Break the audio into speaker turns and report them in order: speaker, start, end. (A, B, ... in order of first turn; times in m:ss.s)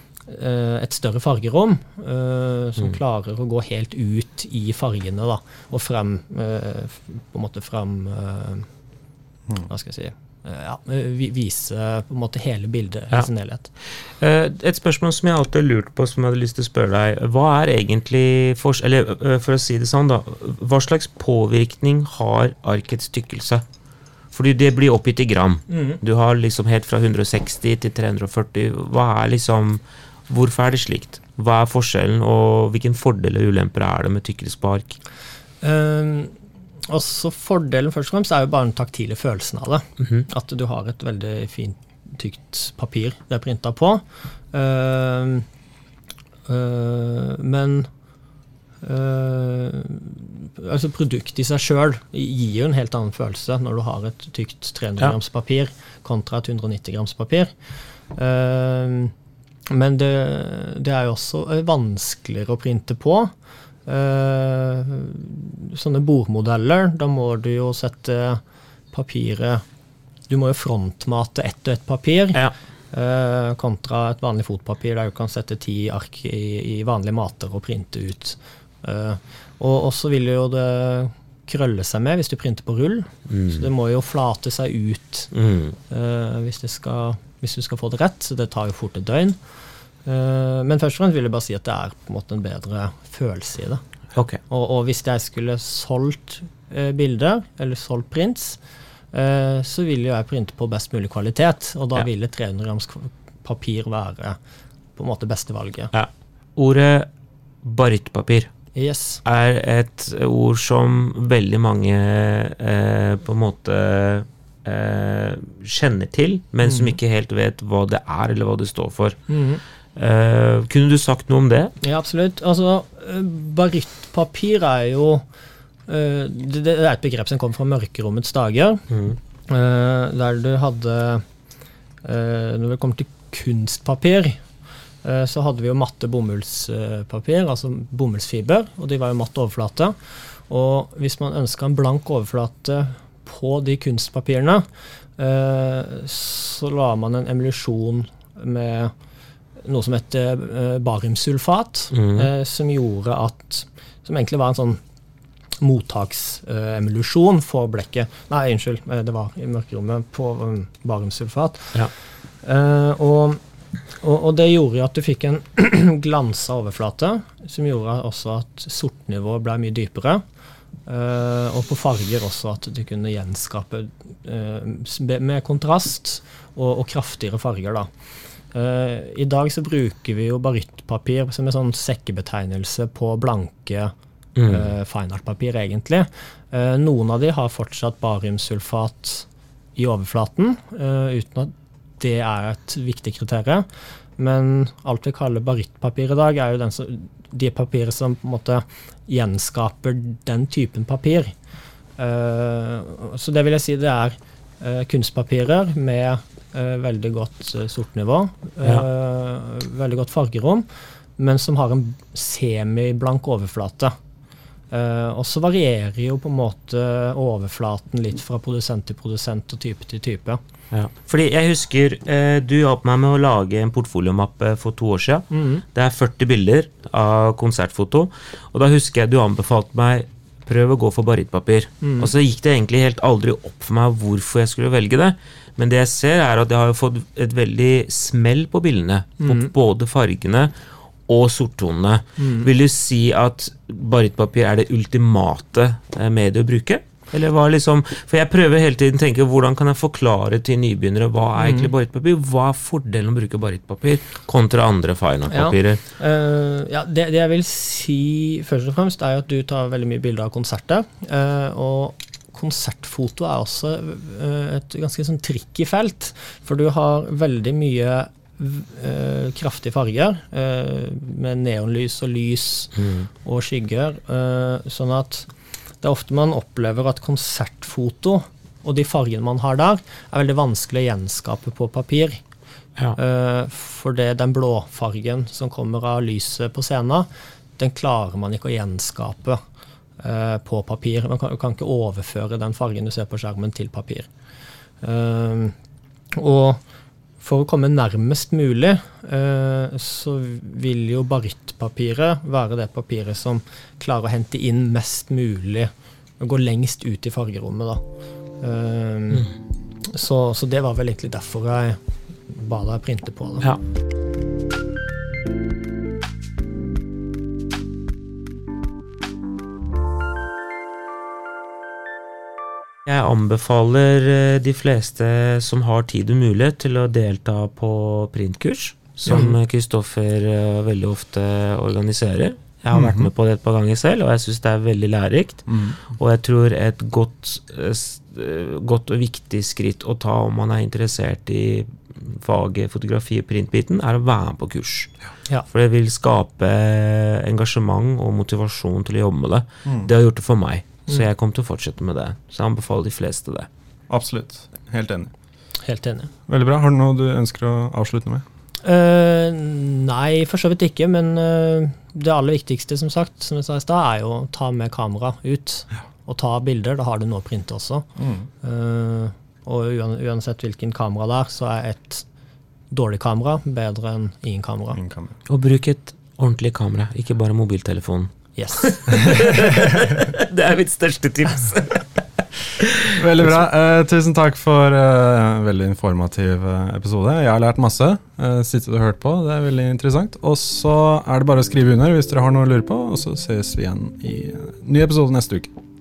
0:00.3-0:08.7 A
0:09.7-0:13.7 A
0:14.2-0:23.6 B
0:24.3-0:35.0 B
0:25.7-0:26.0 A
0:35.6-0:36.3 A
0:36.9-0:45.4 A
0:46.5-0:47.9 A
0:48.8-0:57.5 A
0:58.1-0:59.1 A
0:59.7-1:03.3 A
1:03.8-1:09.6 A
1:10.3-1:25.3 A
1:23.3-1:23.7 B
1:25.3-1:25.8 B
1:25.9-1:29.4 A
1:30.0-1:33.8 A
1:34.1-1:34.4 B
1:34.5-1:38.6 A
1:39.1-1:44.4 A
1:45.0-1:45.9 A
1:45.9-1:47.1 B
1:47.6-1:48.5 B
1:48.7-1:49.2 A
1:49.2-1:59.2 B
1:56.6-1:57.0 A
1:59.3-1:59.6 A
2:00.0-2:01.7 B
2:01.8-2:05.2 A
2:05.9-2:08.8 A
2:08.9-2:09.2 B
2:09.5-2:11.2 A
2:12.0-2:14.4 A
2:15.0-2:19.9 A
2:20.5-2:24.7 A
2:25.2-2:28.9 A
2:29.6-2:34.8 A
2:31.9-2:32.3 B
2:35.6-2:41.8 A
2:42.4-2:43.4 A
2:44.0-2:50.2 A
2:50.8-2:57.9 A
2:58.5-3:03.9 A
3:04.4-3:04.8 B
3:04.5-3:21.3 A
3:22.0-3:33.9 A
3:34.7-3:40.4 A
3:40.7-4:00.5 B
3:45.3-3:45.6 A
3:51.8-3:52.1 A
3:59.2-3:59.5 A
4:01.1-4:15.8 B
4:02.2-4:02.5 A
4:11.4-4:11.7 A
4:15.3-4:35.3 A
4:32.8-4:33.1 B
4:35.8-4:42.2 A
4:42.9-4:49.4 A
4:50.0-4:54.1 A
4:54.8-4:55.5 A
4:56.1-4:56.6 A
4:57.2-5:07.8 A
5:08.4-5:09.3 A
5:09.9-5:13.5 A
5:22.8-5:44.9 B
5:29.1-5:29.3 A
5:32.7-5:33.1 C
5:35.5-5:35.8 C
5:45.5-5:53.5 B
5:53.9-5:55.1 C
5:55.6-5:56.1 A
5:56.3-5:58.2 C
5:58.6-6:07.9 A
6:08.0-6:08.3 C
6:08.4-6:12.0 A
6:12.7-6:14.8 A
6:14.7-6:15.1 C
6:15.3-6:23.0 B
6:18.4-6:19.2 A
6:22.9-6:35.5 C